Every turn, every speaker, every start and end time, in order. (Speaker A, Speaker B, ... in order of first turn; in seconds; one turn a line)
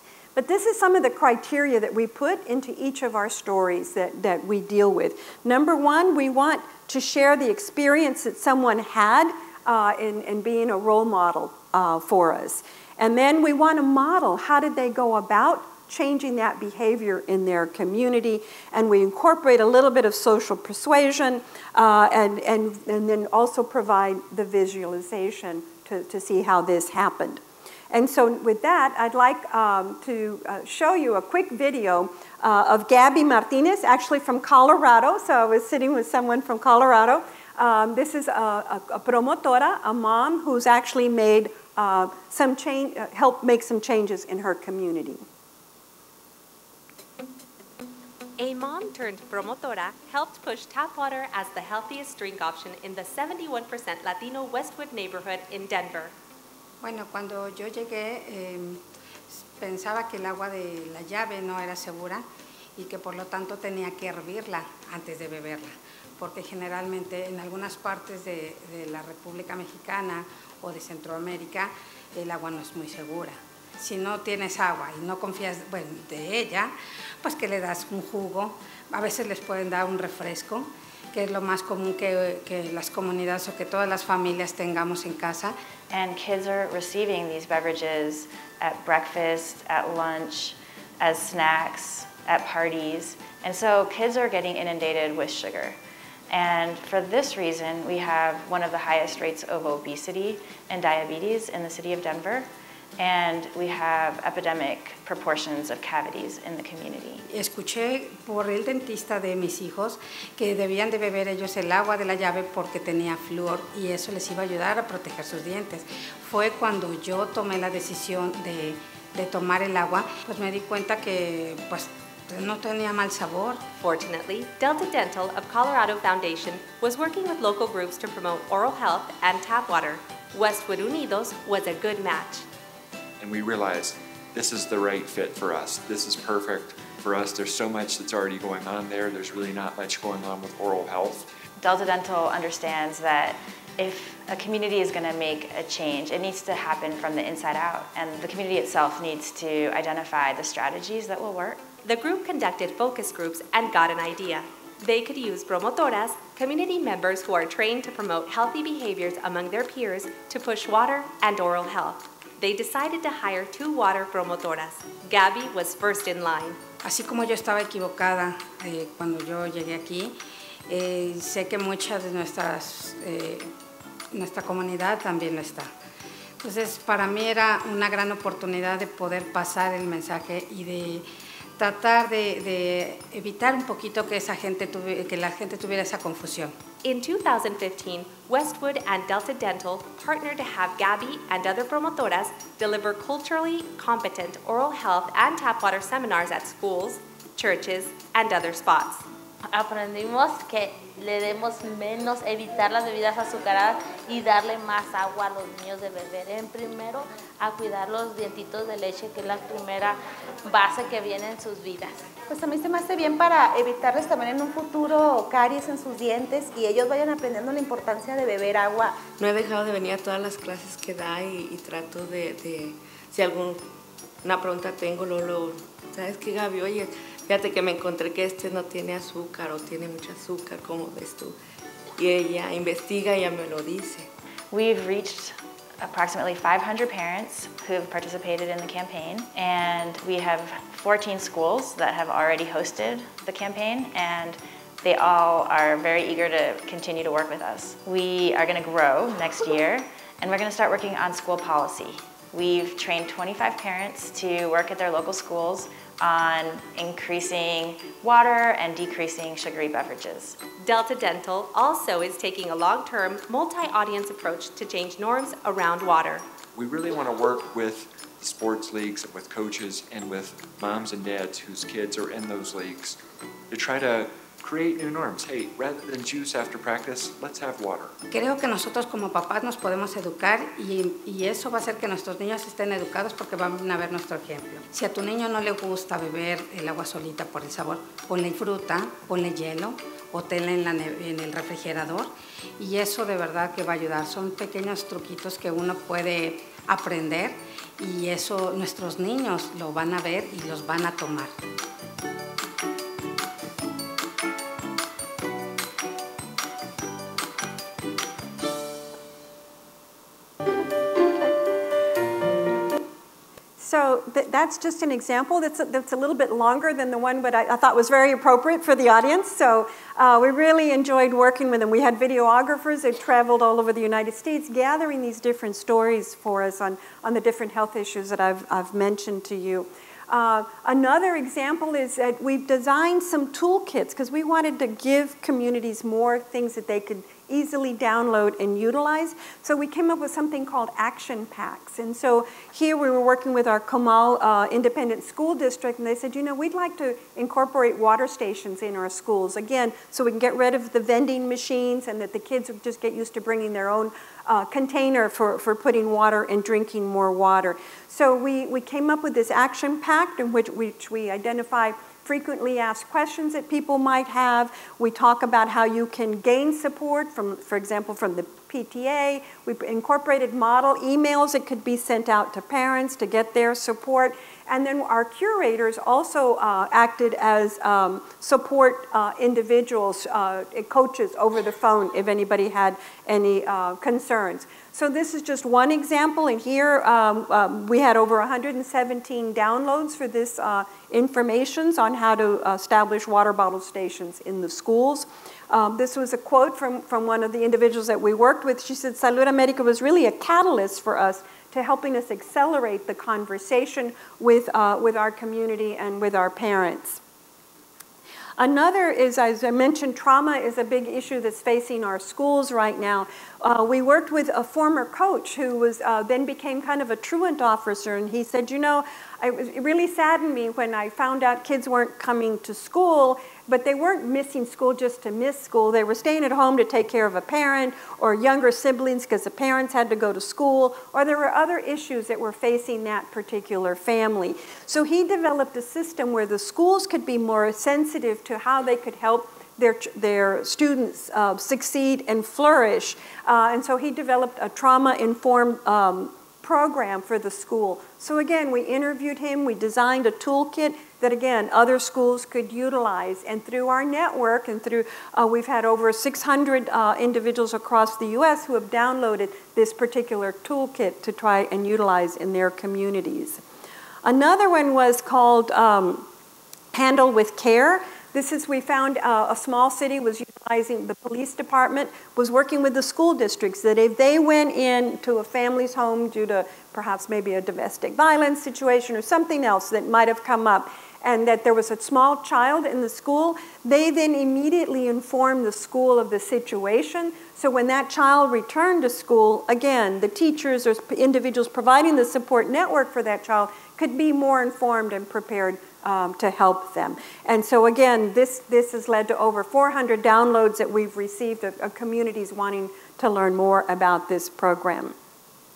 Speaker A: 0.4-45.2
Speaker B: 48.4-56.1
Speaker C: 56.8-62.2
Speaker C: 62.8-85.5
Speaker D: 85.9-95.8
Speaker D: 96.3-107.2
Speaker C: 107.3-123.7
Speaker B: 123.8-132.5
Speaker E: 133.2-141.3
Speaker D: 141.6-151.6
Speaker B: 151.8-166.6
Speaker C: 166.8-170.2
Speaker C: 170.7-173.5
Speaker C: 174.1-175.7
Speaker C: 176.4-181.1
Speaker C: 181.6-186.5
Speaker B: 186.8-199.0
Speaker F: 199.5-212.1
Speaker G: 212.3-219.1
Speaker H: 219.1-223.7
Speaker H: 224.2-231.4
Speaker H: 232.0-234.1
Speaker D: 234.5-260.4
Speaker B: 260.6-266.2
Speaker E: 266.5-273.0
Speaker E: 273.5-277.9
Speaker C: 278.1-301.4
Speaker A: 313.6-407.0
Speaker A: 408.4-463.4
Speaker A: 464.0-466.1
Speaker A: 466.7-504.9